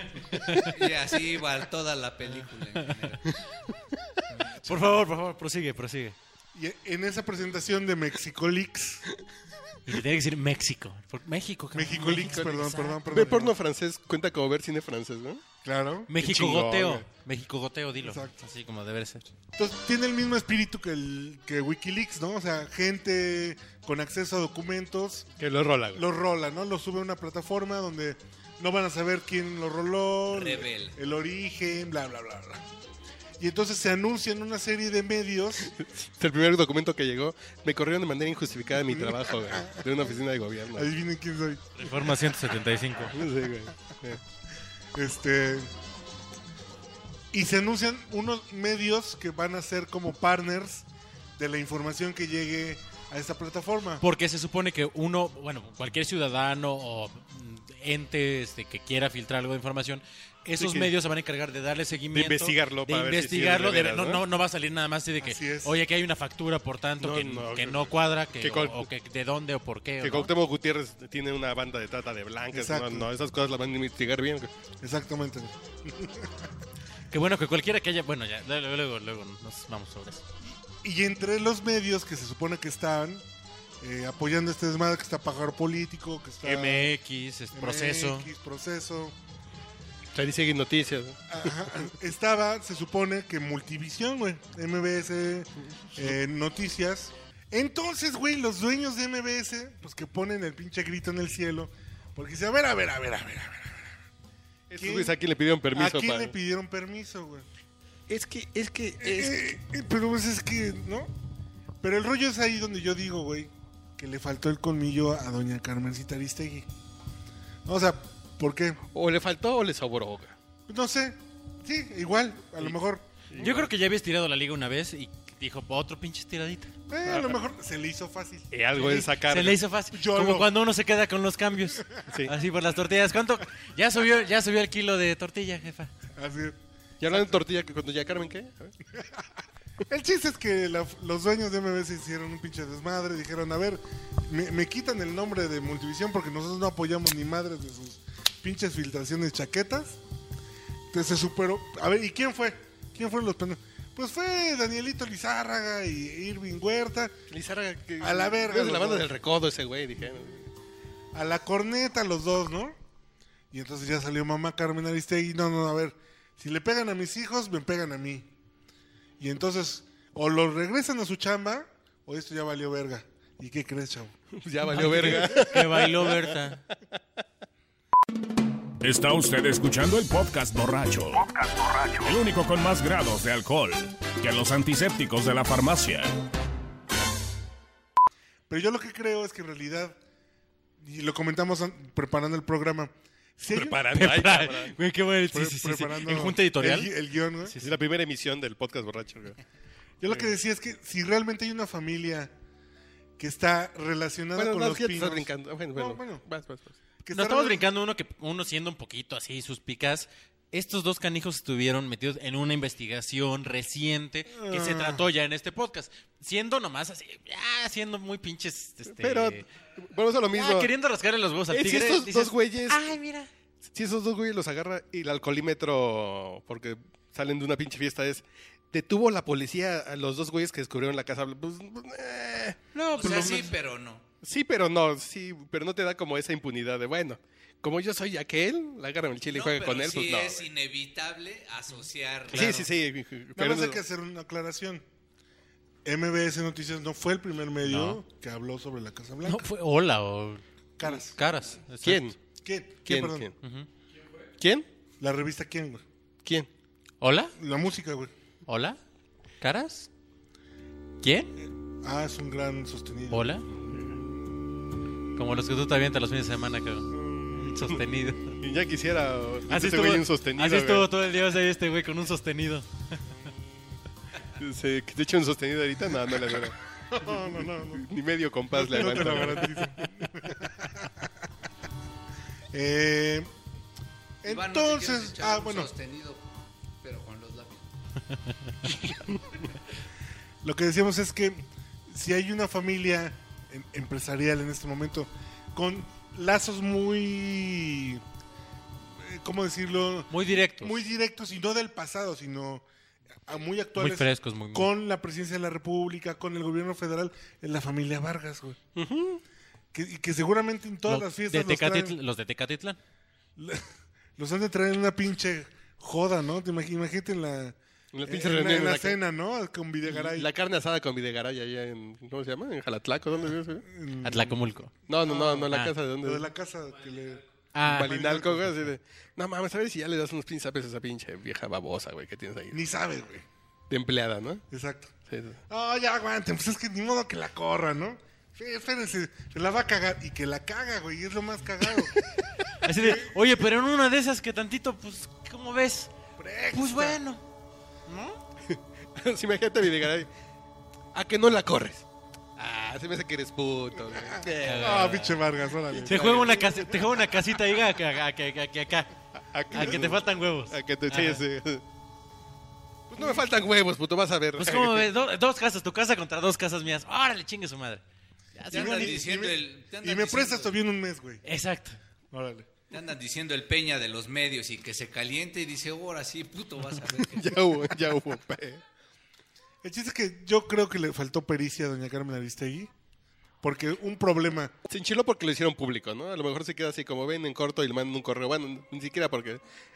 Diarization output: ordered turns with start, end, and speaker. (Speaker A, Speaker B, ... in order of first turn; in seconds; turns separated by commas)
Speaker A: 0.3-0.8, Speaker B: 0.5-3.4, Speaker C: 4.4-4.9, Speaker A: 4.6-6.2, Speaker C: 6.5-9.0, Speaker A: 9.8-13.0, Speaker C: 11.7-13.5, Speaker D: 13.1-15.4, Speaker C: 15.6-16.1, Speaker A: 16.1-19.3, Speaker D: 16.2-17.1, Speaker C: 18.0-18.3, Speaker C: 19.6-25.3, Speaker D: 25.4-26.0, Speaker C: 25.9-32.6, Speaker B: 30.3-31.0, Speaker C: 33.4-35.7, Speaker D: 35.7-40.9, Speaker C: 38.8-39.8, Speaker C: 40.7-42.3, Speaker A: 41.8-43.2, Speaker D: 43.1-44.2, Speaker C: 44.9-45.7, Speaker C: 47.3-54.0, Speaker A: 54.0-70.3, Speaker D: 60.6-60.9, Speaker D: 62.1-64.2, Speaker C: 65.2-65.8, Speaker D: 67.0-68.9, Speaker D: 70.0-74.5, Speaker C: 72.5-73.1, Speaker C: 74.8-76.5, Speaker A: 77.1-80.2, Speaker C: 80.7-83.2, Speaker C: 83.8-86.9, Speaker A: 86.4-88.3, Speaker C: 87.5-89.1, Speaker D: 90.1-91.5, Speaker C: 91.3-104.0, Speaker D: 104.7-106.3, Speaker C: 104.8-105.2, Speaker C: 105.7-107.5, Speaker D: 108.1-109.4, Speaker C: 109.0-111.1, Speaker C: 111.8-116.7, Speaker C: 117.6-118.8, Speaker D: 118.9-120.3, Speaker C: 120.7-123.5, Speaker D: 123.3-123.7, Speaker A: 123.4-126.7, Speaker C: 126.9-129.2, Speaker D: 127.0-127.4, Speaker D: 128.5-129.6, Speaker A: 129.2-135.9, Speaker C: 129.9-130.5, Speaker C: 136.1-137.4, Speaker D: 137.0-138.7, Speaker C: 138.9-139.3, Speaker C: 139.9-150.0, Speaker C: 150.9-157.1, Speaker D: 157.3-160.5, Speaker C: 158.0-159.1, Speaker C: 161.1-162.8, Speaker C: 163.5-168.3, Speaker C: 169.2-174.2, Speaker D: 174.3-176.4, Speaker A: 174.7-176.6, Speaker E: 178.8-186.1, Speaker C: 188.5-190.0, Speaker C: 190.8-193.9, Speaker D: 193.5-194.8, Speaker A: 193.9-197.7, Speaker C: 195.3-197.6, Speaker D: 197.6-199.4, Speaker C: 200.0-202.3, Speaker C: 203.2-206.2, Speaker D: 204.3-206.8, Speaker C: 207.0-207.6, Speaker A: 207.1-219.4, Speaker C: 214.3-215.1, Speaker D: 218.9-220.7, Speaker A: 220.3-223.3, Speaker D: 221.5-222.8, Speaker D: 223.7-232.6, Speaker A: 232.7-233.5, Speaker B: 232.9-234.0, Speaker D: 234.2-240.5, Speaker B: 239.3-242.5, Speaker A: 242.3-242.7, Speaker D: 242.3-243.8, Speaker C: 243.3-244.8, Speaker C: 245.8-249.5, Speaker A: 247.6-248.0, Speaker A: 249.2-252.0, Speaker C: 250.8-251.2, Speaker D: 251.8-252.2, Speaker C: 252.4-253.3, Speaker D: 252.8-253.3, Speaker A: 253.4-253.7, Speaker D: 254.4-254.7, Speaker C: 255.0-255.8, Speaker A: 257.0-257.3, Speaker C: 257.4-258.1, Speaker A: 258.4-258.8, Speaker A: 259.4-259.9, Speaker A: 261.0-261.3, Speaker C: 261.8-263.3, Speaker A: 263.1-263.4, Speaker A: 265.1-268.4, Speaker C: 267.0-267.4, Speaker D: 268.4-270.9, Speaker A: 269.5-272.9, Speaker D: 274.4-276.6, Speaker C: 276.9-277.9, Speaker D: 277.7-280.1, Speaker C: 278.5-281.1, Speaker A: 278.8-279.3, Speaker C: 282.5-283.3, Speaker C: 284.2-285.7, Speaker B: 284.2-286.2, Speaker B: 286.8-287.7, Speaker A: 288.1-288.6, Speaker C: 290.4-298.0, Speaker C: 298.9-302.6, Speaker A: 300.1-300.8, Speaker C: 303.2-308.6, Speaker A: 303.8-304.7, Speaker D: 308.7-309.2, Speaker C: 309.7-311.9, Speaker A: 310.9-312.8, Speaker C: 313.4-313.6, Speaker C: 314.2-320.3, Speaker D: 317.9-319.0, Speaker D: 319.8-323.6, Speaker C: 323.6-325.5, Speaker A: 324.0-324.7, Speaker D: 324.9-326.2, Speaker A: 325.3-325.7, Speaker C: 326.0-328.7, Speaker A: 327.5-327.9, Speaker D: 327.6-332.6, Speaker C: 332.5-333.2, Speaker D: 333.7-334.4, Speaker C: 334.5-334.9, Speaker D: 335.1-335.4, Speaker C: 335.5-342.0, Speaker A: 342.6-345.9, Speaker C: 342.8-343.1, Speaker C: 346.2-347.0, Speaker A: 346.5-347.2, Speaker A: 347.9-348.2, Speaker D: 348.4-350.1, Speaker D: 350.9-351.8, Speaker D: 352.4-354.9, Speaker C: 353.9-356.6, Speaker A: 354.4-355.2, Speaker D: 355.8-356.7, Speaker A: 355.8-358.9, Speaker D: 359.2-361.6, Speaker A: 359.5-361.2, Speaker D: 362.9-364.9, Speaker A: 364.4-367.8, Speaker A: 368.3-369.0, Speaker B: 368.5-370.5, Speaker C: 368.5-371.2, Speaker A: 371.2-371.8, Speaker C: 372.1-372.5, Speaker B: 372.7-377.6, Speaker D: 377.0-378.6, Speaker C: 379.6-382.7, Speaker C: 383.4-384.5, Speaker D: 384.7-389.4